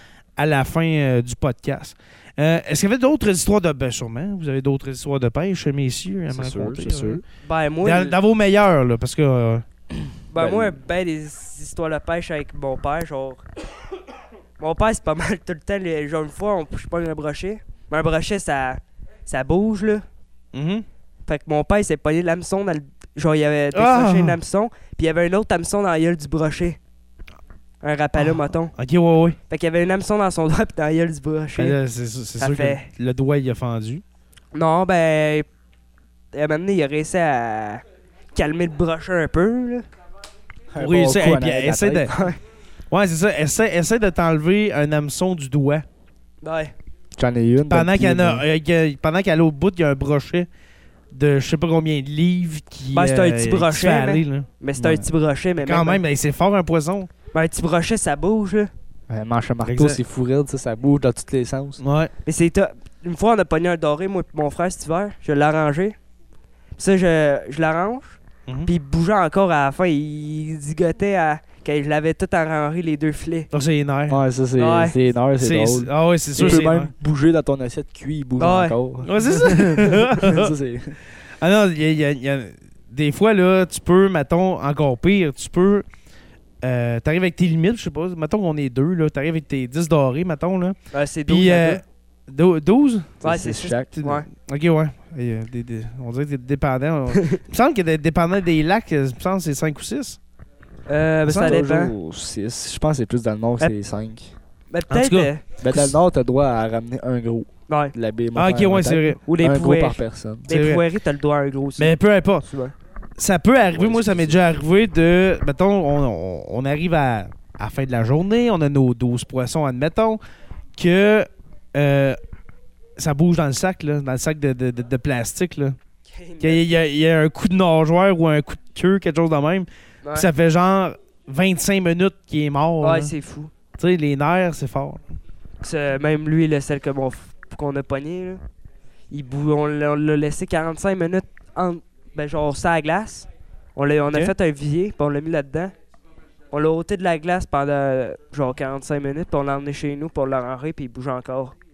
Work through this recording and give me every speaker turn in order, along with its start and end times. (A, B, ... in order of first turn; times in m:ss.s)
0:00.4-0:07.2 A
0:06.3-0:07.2 B
0:07.4-0:08.2 C
0:07.8-0:09.6 A
0:10.3-0:13.4 C
0:10.4-0:10.8 B
0:14.6-0:20.0 C
0:20.5-0:20.8 A
0:21.3-0:26.8 C
0:23.7-0:24.4 A
0:27.8-0:28.7 C
0:28.2-0:29.4 A
0:29.5-0:31.8 C
0:31.6-0:34.0 A
0:32.4-0:32.9 C
0:34.5-0:35.5 C
0:36.3-0:37.8 C
0:38.4-0:39.9 C
0:40.7-0:42.3 B
0:40.8-0:42.1 A
0:42.1-0:42.4 C
0:42.9-0:45.8 A
0:46.4-0:46.7 C
0:47.2-0:48.4 B
0:47.7-0:50.5 A
0:51.1-0:54.5 A
0:52.9-0:56.0 C
0:54.8-0:55.1 B
0:55.6-0:57.1 A
0:57.3-0:58.7 C
0:59.1-1:01.8 B
0:59.6-1:00.0 A
1:01.8-1:02.1 A
1:02.3-1:06.0 C
1:06.8-1:13.5 C
1:13.5-1:14.2 A
1:14.1-1:21.0 B
1:14.6-1:15.0 C
1:15.4-1:16.9 A
1:18.4-1:18.8 C
1:19.0-1:20.5 A
1:21.4-1:25.9 A
1:26.6-1:30.8 A
1:30.9-1:31.8 C
1:31.3-1:33.2 A
1:33.2-1:33.9 B
1:33.2-1:34.3 C
1:34.0-1:40.2 A
1:37.1-1:37.4 C
1:40.9-1:41.9 C
1:41.3-1:41.6 A
1:41.3-1:44.4 B
1:44.7-1:45.4 C
1:44.9-1:45.9 A
1:45.6-1:50.5 B
1:47.7-1:47.9 C
1:48.4-1:49.8 A
1:49.3-1:51.9 C
1:50.5-1:50.8 A
1:51.8-1:52.5 A
1:52.5-1:52.8 C
1:53.2-2:00.2 A
1:53.7-1:54.5 B
2:00.8-2:02.2 A
2:03.0-2:05.8 A
2:06.1-2:06.6 C
2:06.4-2:13.1 A
2:12.8-2:13.5 C
2:13.8-2:15.0 A
2:15.6-2:18.4 C
2:19.1-2:25.7 C
2:26.5-2:31.6 C